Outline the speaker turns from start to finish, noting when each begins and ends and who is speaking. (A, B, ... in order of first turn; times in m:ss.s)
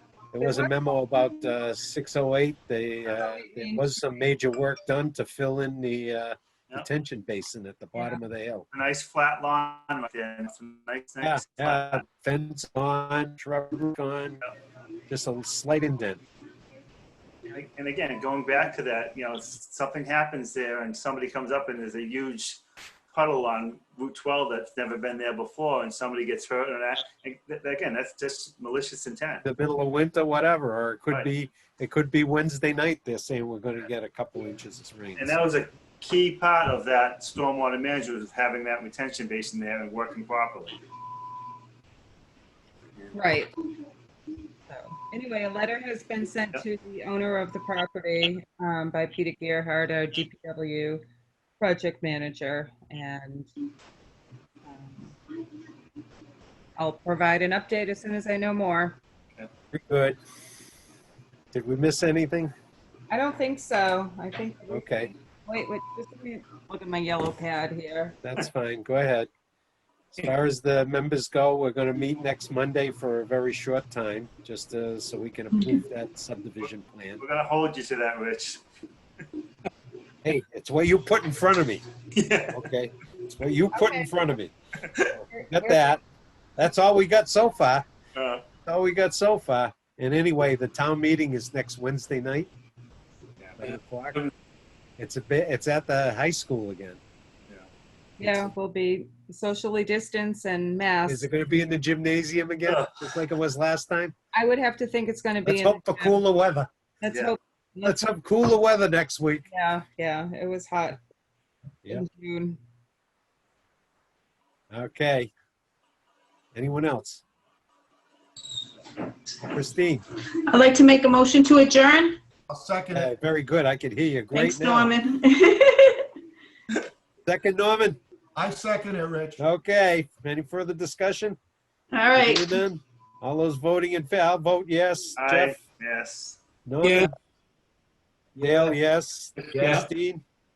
0:00.3-0:08.7 A
0:03.1-0:03.9 B
0:08.7-0:12.0 C
0:11.2-0:14.4 A
0:15.1-0:16.2 A
0:17.5-0:22.6 C
0:23.1-0:29.4 C
0:29.4-0:35.4 A
0:35.2-0:40.8 C
0:43.1-0:43.5 B
0:44.7-0:51.0 B
0:51.6-0:53.5 B
0:54.7-0:55.1 B
0:56.8-0:59.0 B
0:59.7-1:00.2 A
1:01.5-1:02.5 A
1:03.1-1:08.2 B
1:04.7-1:05.1 A
1:08.2-1:09.3 A
1:10.1-1:17.2 A
1:16.6-1:18.6 C
1:20.2-1:21.8 A
1:22.1-1:22.6 C
1:22.5-1:24.5 A
1:23.7-1:24.1 B
1:24.9-1:25.2 C
1:25.3-1:26.0 B
1:25.5-1:26.0 A
1:26.6-1:27.9 A
1:28.1-1:28.4 C
1:28.7-1:32.5 A
1:33.4-1:33.7 C
1:33.6-1:34.3 A
1:35.0-1:37.0 A
1:38.2-1:41.3 B
1:41.0-1:44.1 A
1:44.3-1:46.2 B
1:45.4-1:46.7 A
1:47.0-1:48.0 B
1:47.8-1:49.5 A
1:49.5-1:51.0 B
1:51.9-1:52.6 B
1:54.7-1:55.3 A
1:56.5-1:57.2 A
1:59.4-2:00.0 A
2:00.5-2:02.2 D
2:02.5-2:03.1 E
2:02.9-2:04.9 A
2:04.3-2:06.1 D
2:07.2-2:08.0 A
2:08.3-2:09.4 E
2:09.4-2:11.4 A
2:11.9-2:12.6 D
2:12.1-2:15.6 A
2:15.2-2:16.4 C
2:16.6-2:17.1 A
2:18.4-2:20.2 A
2:19.6-2:19.8 E